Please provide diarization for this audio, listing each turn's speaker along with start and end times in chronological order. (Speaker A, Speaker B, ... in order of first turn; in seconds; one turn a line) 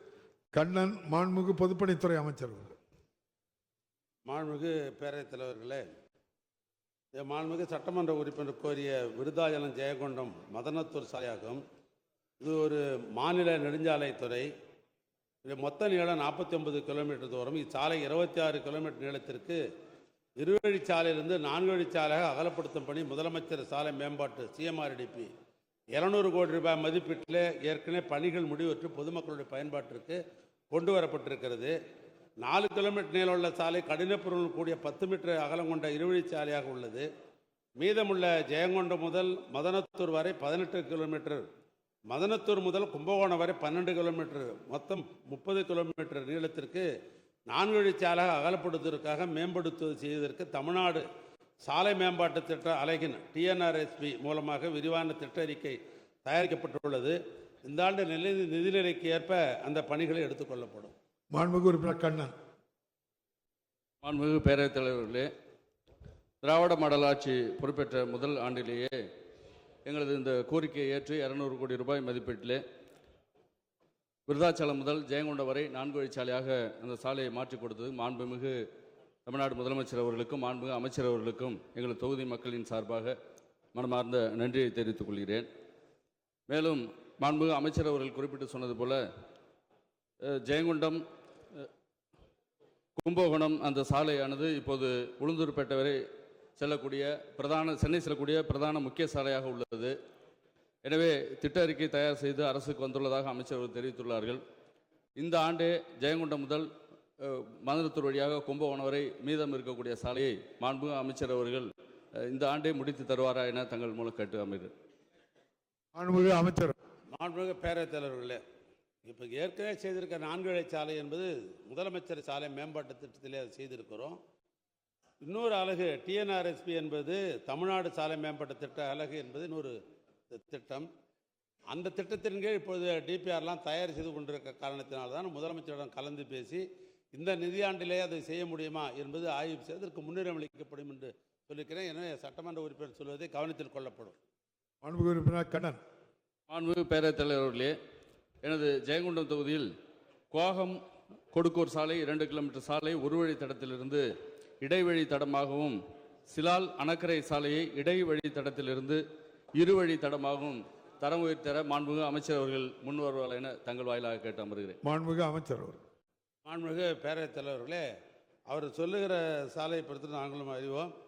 Speaker A: 0.5-2.8
Speaker B: 4.3-5.8
Speaker B: 7.2-11.6
Speaker B: 12.4-14.5
Speaker B: 15.4-19.6
Speaker B: 20.4-25.3
Speaker B: 25.9-30.2
Speaker B: 30.7-31.7
Speaker B: 32.4-37.1
Speaker B: 37.8-41.4
Speaker B: 42.1-46.9
Speaker B: 47.5-51.0
Speaker B: 51.6-60.9
Speaker A: 61.3-62.3
Speaker C: 64.0-65.3
Speaker C: 66.4-68.9
Speaker C: 69.9-72.6
Speaker C: 74.3-78.5
Speaker C: 79.3-83.1
Speaker C: 83.7-85.5
Speaker C: 86.5-89.0
Speaker C: 90.4-91.0
Speaker C: 93.0-96.0
Speaker C: 96.6-99.9
Speaker C: 100.8-104.4
Speaker C: 105.2-106.7
Speaker C: 107.2-111.7
Speaker C: 112.3-114.7
Speaker A: 116.0-116.8
Speaker B: 117.1-118.4
Speaker B: 119.0-124.2
Speaker B: 125.2-129.8
Speaker B: 130.3-130.9
Speaker B: 131.7-136.6
Speaker B: 137.1-144.2
Speaker A: 144.8-145.8
Speaker C: 146.5-147.7
Speaker C: 148.4-149.7
Speaker C: 150.3-150.8
Speaker C: 151.3-154.0
Speaker C: 154.6-155.8
Speaker C: 156.3-159.0
Speaker C: 159.6-164.8
Speaker A: 164.8-165.8
Speaker B: 166.5-167.8
Speaker B: 168.5-170.9